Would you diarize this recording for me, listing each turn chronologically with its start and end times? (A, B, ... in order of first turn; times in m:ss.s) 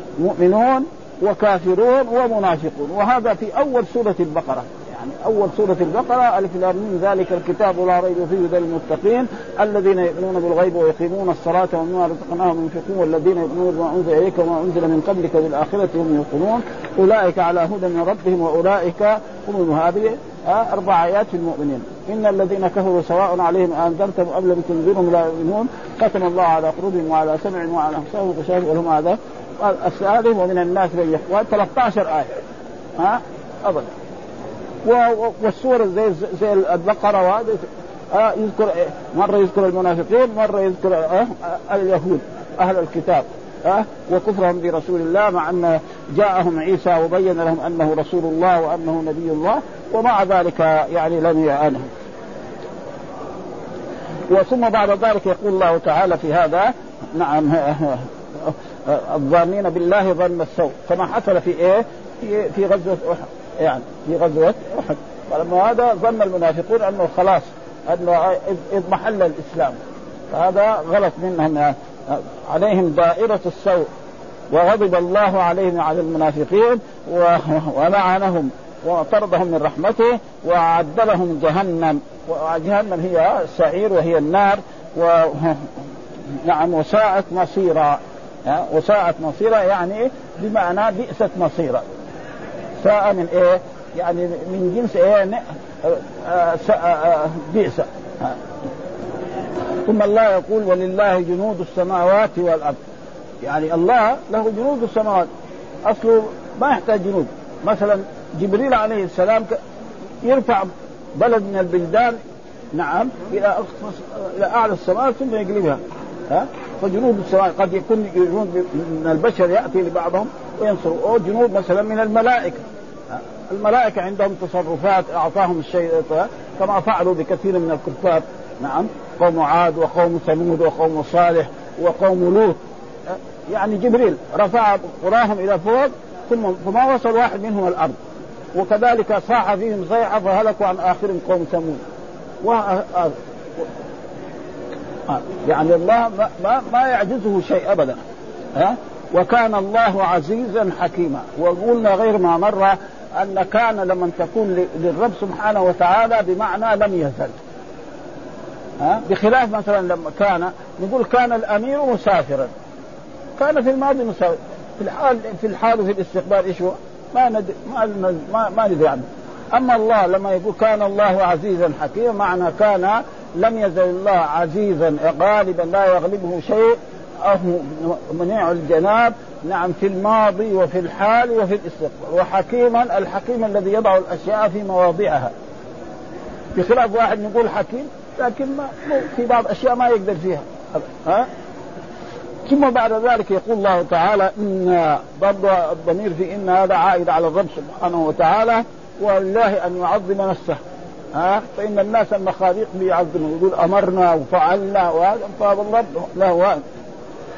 0:00.2-0:32.4 A
0:33.0-0:33.9 A
0:34.8-0:51.9 A
0:54.3-1:09.8 A
1:10.3-1:13.9 A
1:14.5-1:25.7 A
1:26.5-1:31.8 A
1:32.8-1:38.4 A
1:39.9-1:42.8 A
1:43.4-1:45.3 A
1:45.9-1:49.6 A
1:50.2-1:52.2 A
1:52.7-2:12.6 A
2:13.5-2:18.0 A
2:18.5-2:21.8 A
2:22.4-2:23.7 A
2:25.1-2:28.0 A
2:28.6-2:37.4 A
2:38.8-2:42.5 A
2:43.4-3:05.3 A
3:06.5-3:11.3 A
3:12.5-3:20.6 A
3:21.1-3:26.6 A